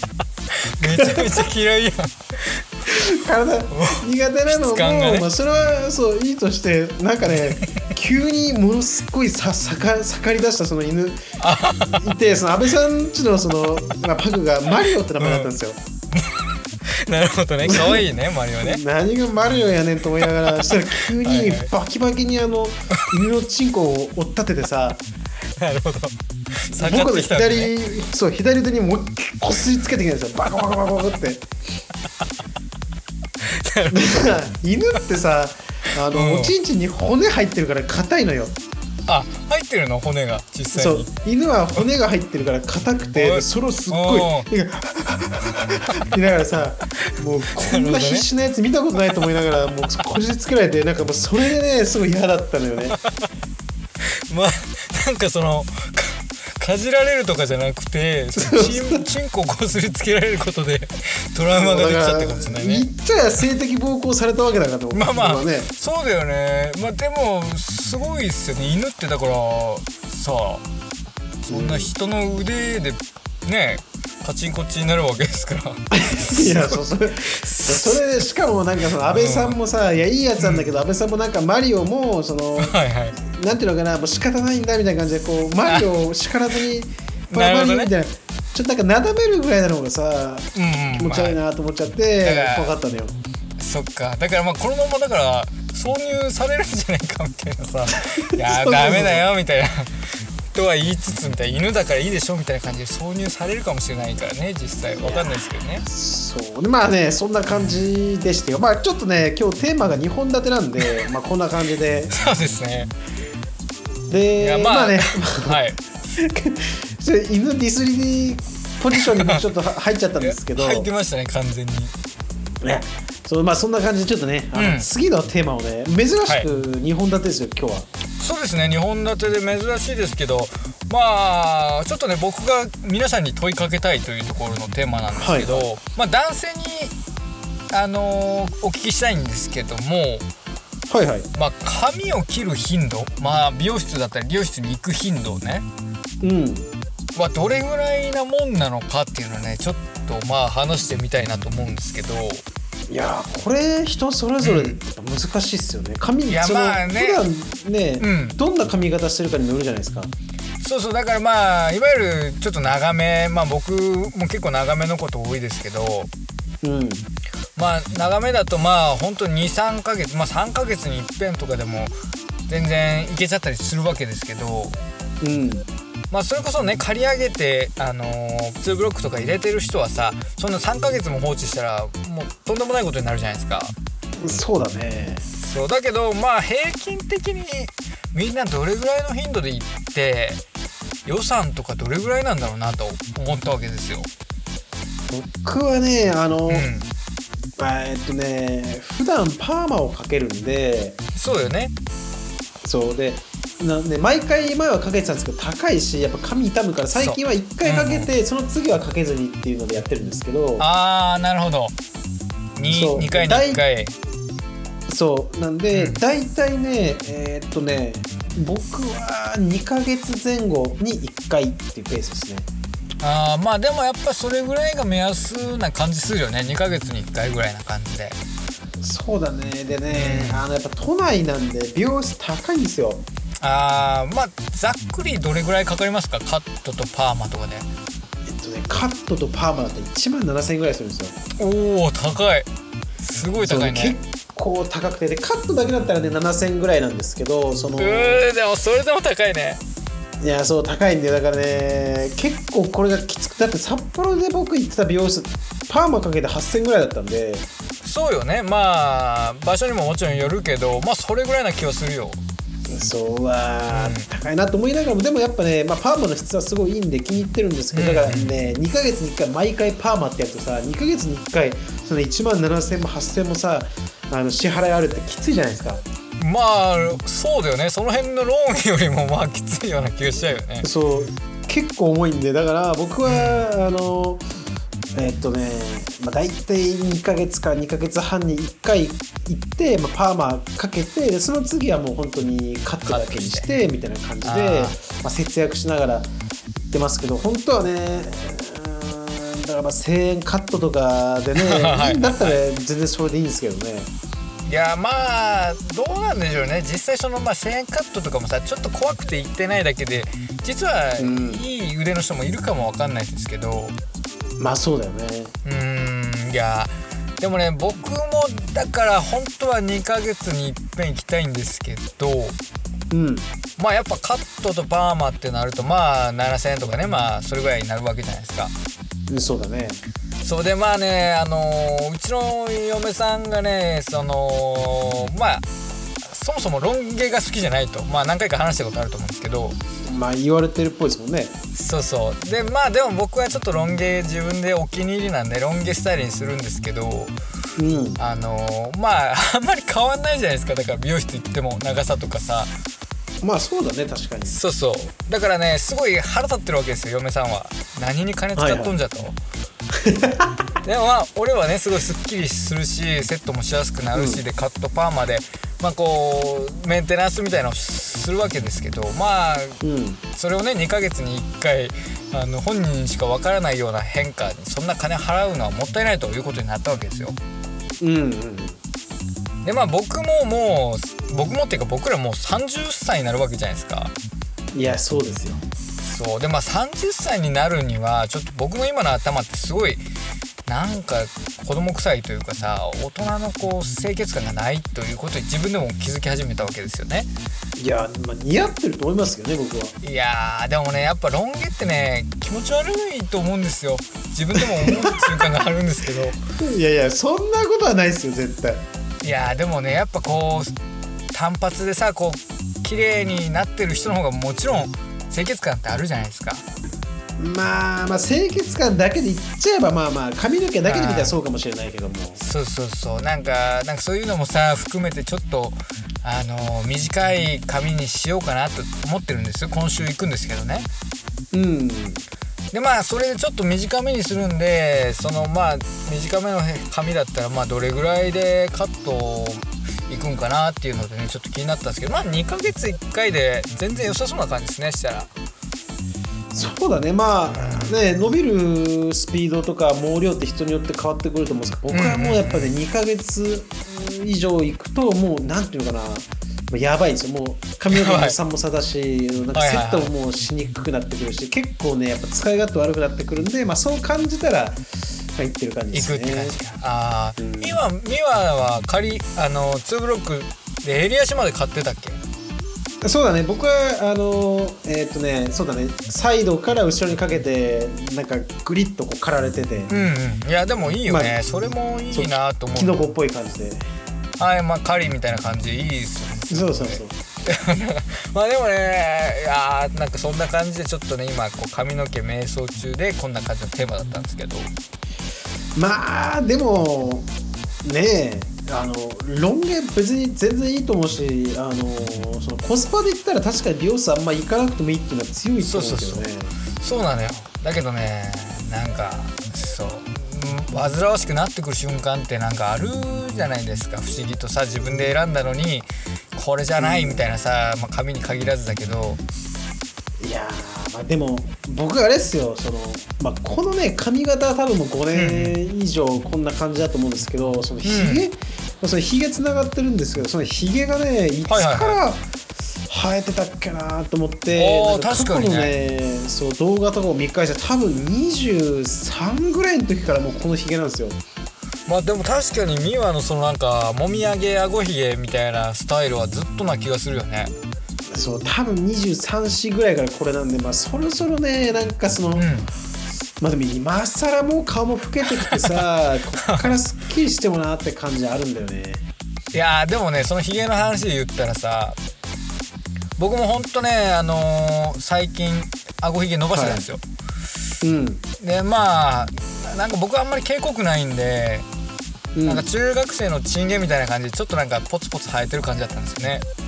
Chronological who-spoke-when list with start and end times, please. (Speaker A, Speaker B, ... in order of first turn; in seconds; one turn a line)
Speaker A: 0.6-2.6
Speaker B: 0.8-1.4
Speaker B: 2.9-11.2
Speaker A: 3.7-5.8
Speaker A: 7.6-7.9
Speaker A: 11.4-12.1
Speaker B: 11.9-15.8
Speaker A: 15.2-15.5
Speaker A: 16.1-18.8
Speaker B: 17.6-18.1
Speaker B: 18.6-25.0
Speaker A: 20.2-21.7
Speaker A: 25.6-27.7
Speaker B: 26.7-31.5
Speaker A: 33.4-34.4
Speaker B: 33.9-38.6
Speaker A: 36.1-36.5
Speaker A: 39.1-41.1
Speaker B: 40.8-53.0
Speaker A: 43.2-44.5
Speaker A: 47.1-48.3
Speaker A: 52.9-53.2
Speaker A: 54.3-62.9
Speaker B: 58.4-59.1
Speaker B: 61.5-65.7
Speaker A: 64.9-70.6
Speaker A: 71.4-78.0
Speaker B: 71.5-71.9
Speaker B: 75.9-93.1
Speaker A: 79.1-79.6
Speaker A: 80.4-80.7
Speaker A: 82.6-83.2
Speaker A: 87.3-87.9
Speaker A: 90.5-91.4
Speaker A: 92.2-92.8
Speaker A: 93.6-105.9
Speaker B: 98.2-99.2
Speaker B: 105.0-112.1
Speaker A: 112.1-112.9
Speaker B: 114.1-115.6
Speaker A: 114.4-115.8
Speaker B: 116.2-120.9
Speaker A: 119.0-119.4
Speaker A: 120.2-121.9
Speaker B: 122.6-127.9
Speaker A: 124.5-124.9
Speaker A: 128.2-136.9
Speaker B: 135.1-135.7
Speaker A: 137.7-140.3
Speaker B: 140.9-141.3
Speaker A: 141.3-145.7
Speaker B: 146.2-146.7
Speaker A: 147.2-152.4
Speaker B: 152.9-160.1
Speaker A: 154.4-154.8
Speaker A: 156.3-157.2
Speaker A: 158.0-158.4
Speaker A: 160.6-166.1
Speaker B: 166.6-167.1
Speaker A: 167.6-171.9
Speaker A: 172.5-174.8
Speaker B: 175.2-175.7
Speaker A: 176.1-183.7
Speaker B: 184.2-185.3
Speaker A: 185.4-190.4
Speaker A: 191.1-194.1
Speaker B: 195.1-196.7
Speaker A: 196.5-196.9
Speaker B: 197.6-201.0
Speaker A: 201.2-201.7
Speaker B: 202.6-210.7
Speaker A: 206.9-208.1
Speaker A: 210.6-211.8
Speaker A: 212.6-214.0
Speaker B: 212.7-213.6
Speaker B: 214.9-222.5
Speaker A: 215.7-216.0
Speaker A: 223.0-228.2
Speaker B: 228.8-233.0
Speaker A: 229.9-230.4
Speaker A: 233.4-237.7
Speaker B: 238.2-241.2
Speaker A: 241.4-242.5
Speaker A: 243.0-243.9
Speaker B: 243.4-248.2
Speaker A: 247.8-249.6
Speaker B: 250.2-257.5
Speaker A: 257.8-262.2
Speaker B: 262.7-275.8
Speaker A: 263.7-264.1
Speaker A: 267.7-268.4
Speaker A: 276.2-280.7
Speaker B: 280.6-284.3
Speaker A: 283.1-283.5
Speaker B: 284.9-296.1
Speaker A: 292.9-293.6
Speaker A: 294.2-294.8
Speaker B: 296.7-303.9
Speaker A: 301.4-302.4
Speaker A: 304.5-313.8
Speaker B: 311.0-311.4
Speaker B: 314.4-315.3
Speaker A: 315.4-322.4
Speaker B: 322.9-323.3
Speaker A: 323.6-328.5
Speaker B: 329.1-329.8
Speaker A: 330.2-335.5
Speaker A: 336.0-339.6
Speaker B: 339.9-341.3
Speaker A: 341.6-347.1
Speaker B: 347.6-348.0
Speaker A: 348.0-352.5
Speaker B: 353.2-354.4
Speaker A: 354.3-359.2
Speaker B: 358.4-358.8
Speaker B: 359.7-360.3
Speaker A: 360.6-369.6
Speaker B: 363.9-364.2
Speaker B: 369.6-370.0
Speaker A: 370.1-377.2
Speaker B: 377.8-378.6
Speaker A: 379.4-383.9
Speaker B: 384.5-385.4
Speaker A: 385.8-389.8
Speaker A: 390.5-397.1
Speaker B: 397.6-399.8
Speaker A: 399.8-406.2
Speaker B: 404.4-405.0
Speaker B: 406.4-408.6
Speaker A: 409.0-410.6
Speaker A: 411.1-416.4
Speaker B: 417.2-422.2
Speaker A: 420.6-421.1
Speaker A: 422.2-430.7
Speaker B: 431.3-432.0
Speaker A: 432.5-445.1
Speaker B: 446.3-466.4
Speaker A: 447.5-447.7
Speaker A: 451.7-452.5
Speaker A: 457.7-458.2
Speaker A: 459.3-459.9
Speaker A: 465.7-472.0
Speaker B: 467.2-467.6
Speaker B: 472.8-479.7
Speaker A: 479.7-482.9
Speaker B: 480.9-481.2
Speaker B: 481.9-483.6
Speaker A: 484.2-494.5
Speaker B: 486.3-486.9
Speaker B: 495.6-497.1
Speaker B: 497.6-506.3
Speaker A: 505.4-519.0
Speaker B: 516.6-517.1
Speaker B: 520.0-532.1
Speaker A: 524.9-525.4
Speaker A: 527.6-528.1
Speaker A: 531.3-531.8
Speaker B: 532.7-541.0
Speaker A: 534.4-535.5
Speaker A: 541.7-547.3
Speaker B: 547.9-552.3
Speaker A: 552.1-552.5
Speaker B: 553.2-558.9
Speaker A: 555.2-555.6
Speaker A: 556.2-556.6
Speaker A: 559.3-561.8
Speaker A: 563.0-566.8
Speaker B: 566.3-566.7
Speaker B: 567.6-568.0
Speaker A: 568.2-571.5
Speaker B: 572.1-572.5
Speaker A: 572.3-576.2